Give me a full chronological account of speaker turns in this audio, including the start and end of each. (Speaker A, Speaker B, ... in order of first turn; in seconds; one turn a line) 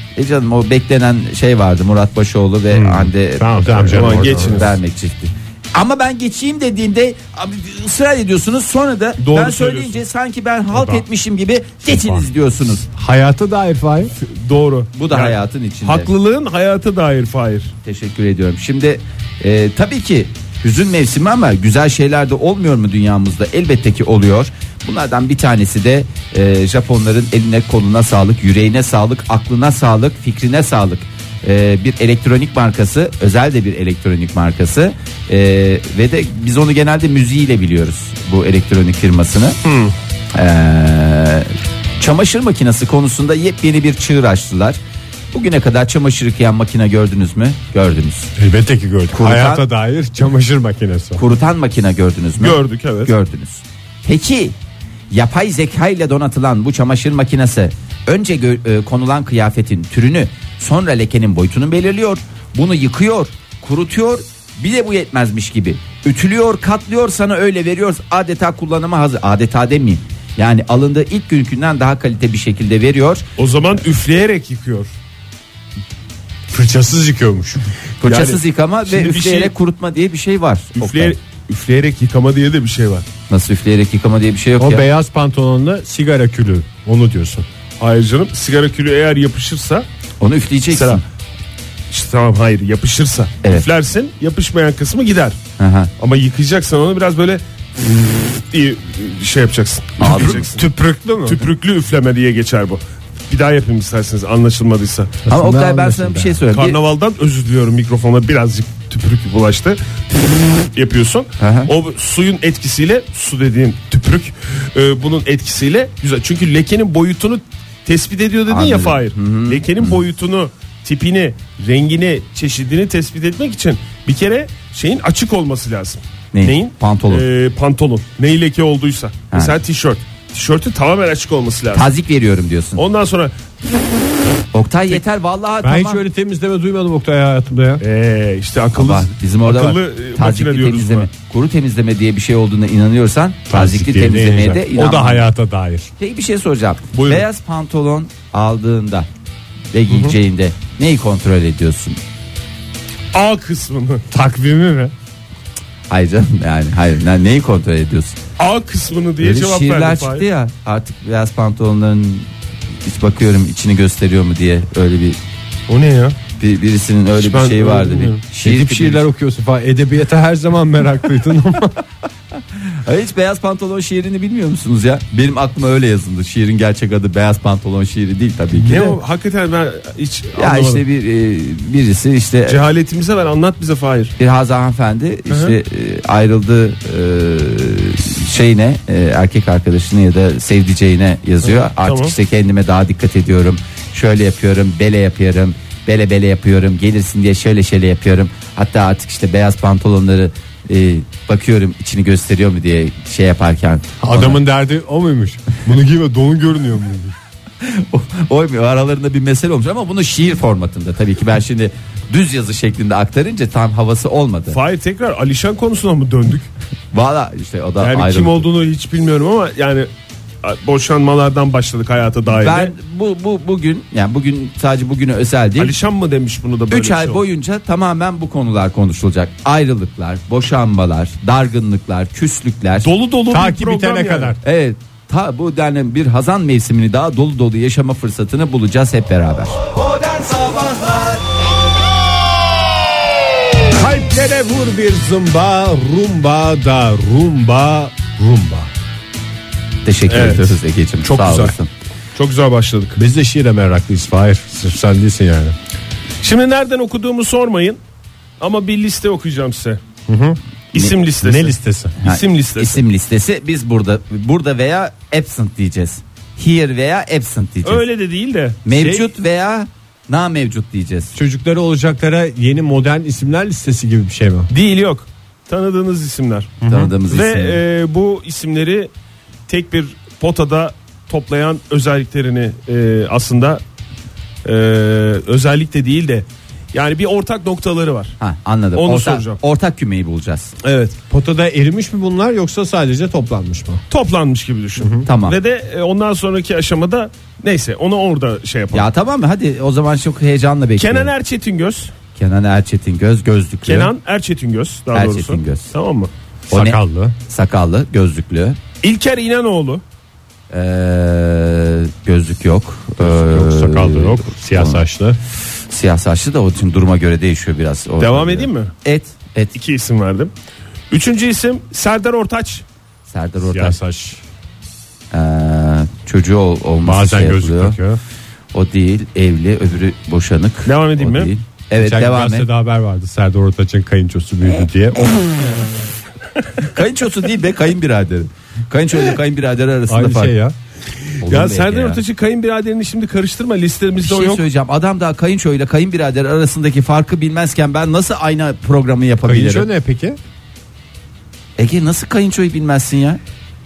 Speaker A: 0.1-12.9
Speaker B: 2.7-4.7
Speaker C: 3.8-4.7
Speaker C: 9.2-10.0
Speaker B: 10.7-11.0
Speaker B: 12.9-14.1
Speaker C: 14.2-17.7
Speaker A: 14.9-16.1
Speaker A: 17.8-39.6
Speaker C: 39.6-39.9
Speaker A: 40.3-44.8
Speaker A: 45.3-48.3
Speaker B: 48.4-51.2
Speaker A: 49.1-49.6
Speaker A: 51.1-54.5
Speaker C: 52.4-53.1
Speaker A: 55.1-73.2
Speaker C: 73.4-74.9
Speaker B: 76.5-77.7
Speaker A: 78.0-81.2
Speaker C: 78.0-79.5
Speaker C: 80.8-83.0
Speaker A: 83.3-84.8
Speaker B: 84.6-87.5
Speaker C: 87.8-89.8
Speaker A: 90.2-91.0
Speaker C: 90.7-91.0
Speaker C: 91.9-95.4
Speaker A: 95.6-95.9
Speaker C: 96.0-100.6
Speaker A: 100.0-100.4
Speaker B: 100.1-101.5
Speaker C: 101.2-105.2
Speaker B: 105.2-106.4
Speaker A: 105.3-106.8
Speaker C: 106.5-131.9
Speaker A: 111.4-111.7
Speaker A: 118.5-120.0
Speaker A: 126.3-127.2
Speaker A: 129.3-129.6
Speaker A: 131.7-132.8
Speaker C: 132.8-133.3
Speaker A: 134.5-136.0
Speaker B: 135.6-137.8
Speaker C: 137.8-141.1
Speaker A: 138.7-145.2
Speaker B: 143.5-145.9
Speaker A: 146.0-149.1
Speaker C: 146.9-147.2
Speaker A: 149.7-152.0
Speaker C: 149.9-150.1
Speaker C: 153.1-154.0
Speaker B: 154.1-154.9
Speaker A: 155.9-158.2
Speaker C: 158.4-160.2
Speaker A: 159.2-162.3
Speaker A: 162.8-165.2
Speaker C: 165.7-166.2
Speaker A: 166.4-169.0
Speaker C: 167.2-168.2
Speaker B: 168.4-171.8
Speaker A: 172.7-179.0
Speaker C: 178.5-180.8
Speaker A: 180.3-182.6
Speaker C: 182.5-184.1
Speaker A: 184.2-204.4
Speaker C: 185.3-185.6
Speaker C: 191.4-192.1
Speaker B: 204.0-207.1
Speaker A: 207.6-214.6
Speaker C: 214.5-216.5
Speaker A: 216.9-218.4
Speaker C: 217.8-219.9
Speaker C: 220.4-222.7
Speaker A: 222.3-225.7
Speaker C: 225.6-227.2
Speaker A: 226.7-232.9
Speaker C: 232.8-234.4
Speaker B: 233.3-234.4
Speaker A: 234.4-239.6
Speaker B: 243.7-248.7
Speaker A: 249.8-251.7
Speaker C: 250.1-251.5
Speaker C: 252.2-253.0
Speaker B: 252.9-255.6
Speaker C: 256.2-257.8
Speaker C: 258.4-259.8
Speaker B: 260.1-260.4
Speaker C: 260.7-262.8
Speaker B: 261.2-261.9
Speaker A: 262.0-267.8
Speaker C: 267.6-269.1
Speaker A: 268.6-271.1
Speaker B: 271.1-274.5
Speaker C: 274.5-278.9
Speaker B: 276.6-276.9
Speaker A: 276.6-277.6
Speaker C: 279.5-283.6
Speaker C: 284.4-288.2
Speaker A: 288.2-290.5
Speaker C: 288.8-289.4
Speaker C: 290.6-291.0
Speaker B: 291.1-293.8
Speaker C: 293.9-298.9
Speaker B: 294.8-295.1
Speaker A: 295.0-295.4
Speaker A: 298.7-301.1
Speaker C: 300.8-301.9
Speaker A: 302.1-303.9
Speaker C: 303.6-306.1
Speaker A: 304.9-305.7
Speaker A: 306.5-308.6
Speaker B: 306.5-307.2
Speaker C: 308.8-309.8
Speaker A: 310.5-314.8
Speaker B: 313.0-315.2
Speaker A: 315.7-319.5
Speaker C: 318.0-318.7
Speaker C: 319.5-320.3
Speaker C: 320.9-322.6
Speaker A: 323.1-323.8
Speaker B: 323.4-324.2
Speaker A: 325.1-327.8
Speaker B: 326.8-328.0
Speaker A: 328.5-332.4
Speaker C: 330.6-331.3
Speaker B: 331.8-335.1
Speaker A: 336.6-340.3
Speaker B: 339.9-340.5
Speaker A: 341.2-342.0
Speaker C: 341.2-344.4
Speaker A: 344.0-349.7
Speaker B: 349.2-350.2
Speaker A: 351.6-353.2